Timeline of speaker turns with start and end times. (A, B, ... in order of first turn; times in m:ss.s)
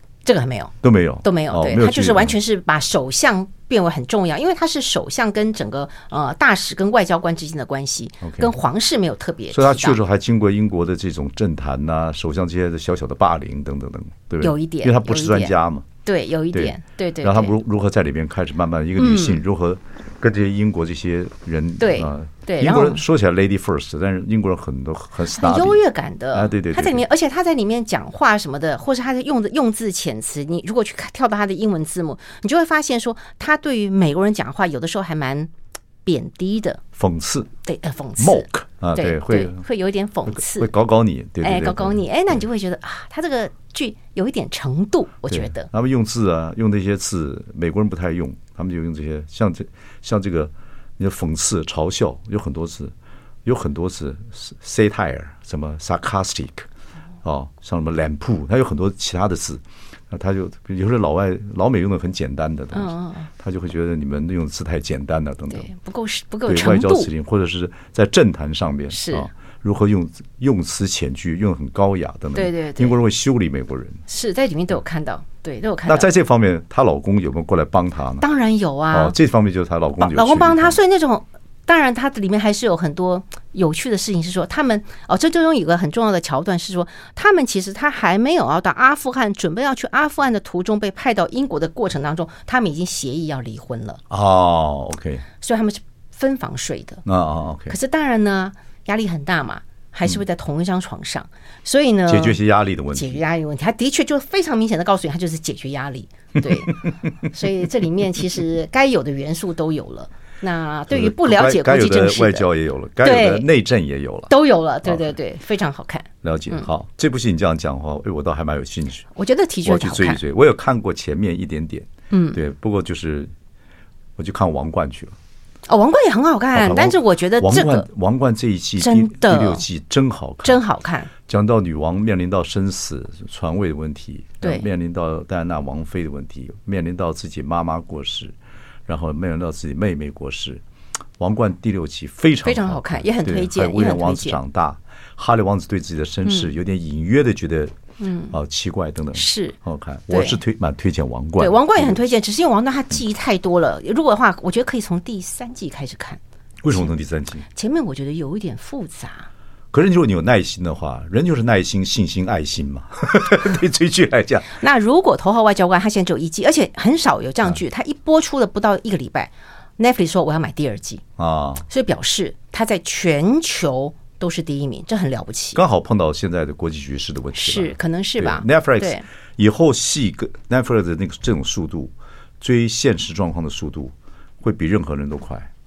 0:00.3-0:00.7 A
0:00.8-0:02.4 B
0:01.2-0:10.0 A
0:08.2-0:08.5 B
0:09.5-0:15.9 B
0:14.4-0:15.5 A
0:16.0-0:17.6 A
0:16.5-0:25.8 B
0:19.0-0:19.4 A
0:21.8-0:23.0 A
0:25.3-0:35.5 A
0:26.3-0:27.0 B
0:36.0-0:36.8 A
0:37.0-0:37.5 B
0:37.6-0:40.7 A
0:38.2-0:39.6 B
0:40.3-0:42.0 B
0:41.4-0:45.7 A
0:45.3-0:52.9 B
0:53.4-0:56.7 B
0:57.2-1:05.7 B
1:02.7-1:03.3 A
1:05.5-1:07.1 A
1:06.5-1:14.0 B
1:08.9-1:09.3 A
1:12.3-1:13.0 A
1:14.1-1:16.1 A
1:15.9-1:18.3 B
1:18.2-1:19.2 A
1:18.9-1:20.8 B
1:20.0-1:34.0 A
1:34.1-1:35.3 B
1:35.4-1:37.0 A
1:37.0-1:37.8 B
1:37.7-1:42.4 A
1:42.1-1:43.2 B
1:42.9-1:52.5 A
1:46.4-1:46.9 B
1:50.9-1:54.3 B
1:53.0-1:53.5 A
1:54.3-1:56.7 A
1:54.8-1:55.1 B
1:56.2-1:59.1 B
1:59.2-2:00.2 A
1:59.6-2:03.3 B
2:02.1-2:02.4 A
2:04.2-2:05.2 B
2:05.7-2:07.9 A
2:06.6-2:10.6 B
2:08.8-2:09.6 A
2:10.4-2:11.1 A
2:11.3-2:18.4 B
2:14.4-2:14.7 A
2:18.9-2:20.6 B
2:21.2-2:27.7 B
2:22.4-2:24.4 A
2:26.3-2:26.5 A
2:28.0-2:28.3 A
2:28.3-2:32.1 B
2:29.2-2:29.6 A
2:30.1-2:30.4 A
2:31.4-2:36.2 A
2:36.6-2:37.4 B
2:37.5-2:39.3 A
2:39.7-2:44.6 B
2:44.5-2:51.0 A
2:51.2-2:51.6 B
2:51.7-2:55.6 A
2:55.6-3:05.5 B
2:57.3-2:59.0 A